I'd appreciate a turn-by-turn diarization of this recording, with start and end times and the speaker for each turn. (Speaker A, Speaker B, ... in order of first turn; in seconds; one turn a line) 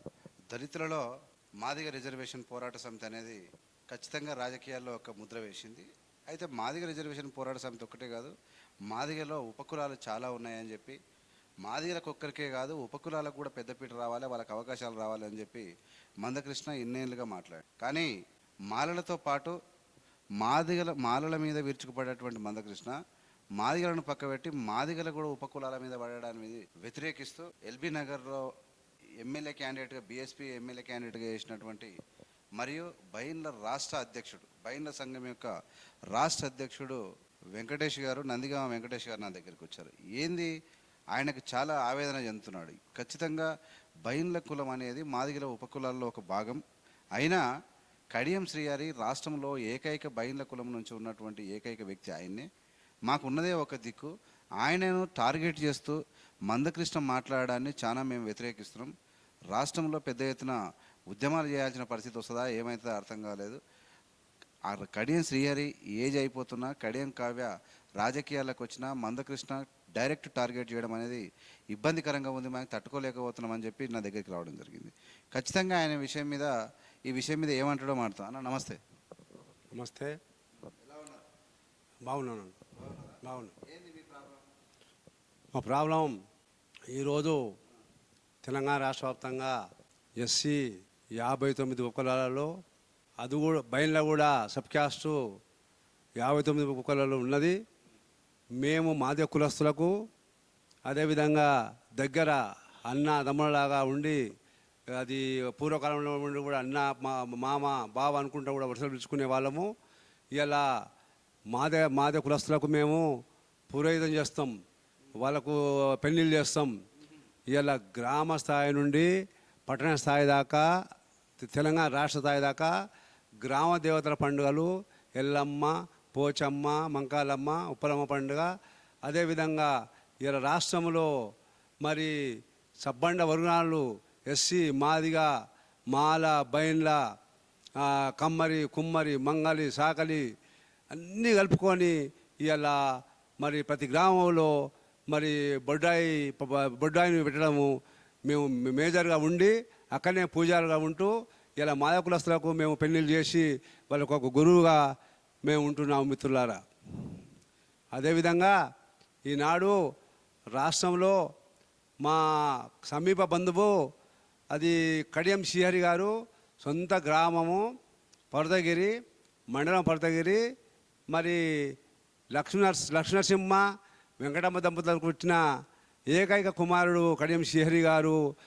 Speaker A: 0.5-1.1
Speaker A: 1.6-3.4
Speaker A: 3.9-8.3
Speaker A: 8.9-11.0
Speaker A: 11.6-15.7
Speaker A: 16.2-18.1
Speaker A: 18.7-19.6
Speaker A: 20.4-23.0
Speaker A: 23.6-28.4
Speaker A: 29.2-31.9
Speaker A: 32.6-35.5
Speaker A: 36.1-37.0
Speaker A: 37.5-40.5
Speaker A: 41.1-43.5
Speaker A: 44.0-46.6
Speaker A: 47.2-47.4
Speaker A: 48.1-52.5
Speaker A: 53.1-54.1
Speaker A: 54.6-56.0
Speaker A: 56.5-58.9
Speaker A: 59.5-60.6
Speaker A: 61.1-63.6
Speaker A: 64.7-67.5
Speaker A: 68.0-76.5
Speaker A: 77.1-78.8
Speaker B: 79.7-80.2
Speaker A: 80.8-81.2
Speaker B: 82.1-82.6
Speaker A: 82.8-83.1
Speaker B: 83.2-83.5
Speaker A: 83.7-84.4
Speaker B: 85.5-86.2
Speaker B: 86.9-87.4
Speaker B: 88.4-89.6
Speaker B: 90.2-92.5
Speaker B: 93.2-95.2
Speaker B: 96.2-97.6
Speaker B: 98.6-99.9
Speaker B: 100.9-104.2
Speaker B: 105.0-109.7
Speaker B: 110.3-110.7
Speaker B: 111.5-113.1
Speaker B: 113.7-114.5
Speaker B: 115.2-116.7
Speaker B: 117.5-119.1
Speaker B: 119.7-120.7
Speaker B: 121.4-122.7
Speaker B: 123.4-128.5
Speaker B: 129.1-131.1
Speaker B: 131.8-132.2
Speaker B: 132.8-135.3
Speaker B: 135.9-137.0
Speaker B: 137.8-140.2
Speaker B: 140.9-144.6
Speaker B: 145.1-154.8
Speaker B: 155.4-157.1
Speaker B: 157.9-158.6
Speaker B: 159.3-159.8
Speaker B: 160.5-161.2
Speaker B: 162.0-163.8
Speaker B: 164.5-167.7
Speaker B: 168.3-168.9
Speaker B: 169.5-170.4
Speaker B: 171.1-171.8
Speaker B: 172.3-173.6
Speaker B: 174.2-175.4
Speaker B: 176.1-178.2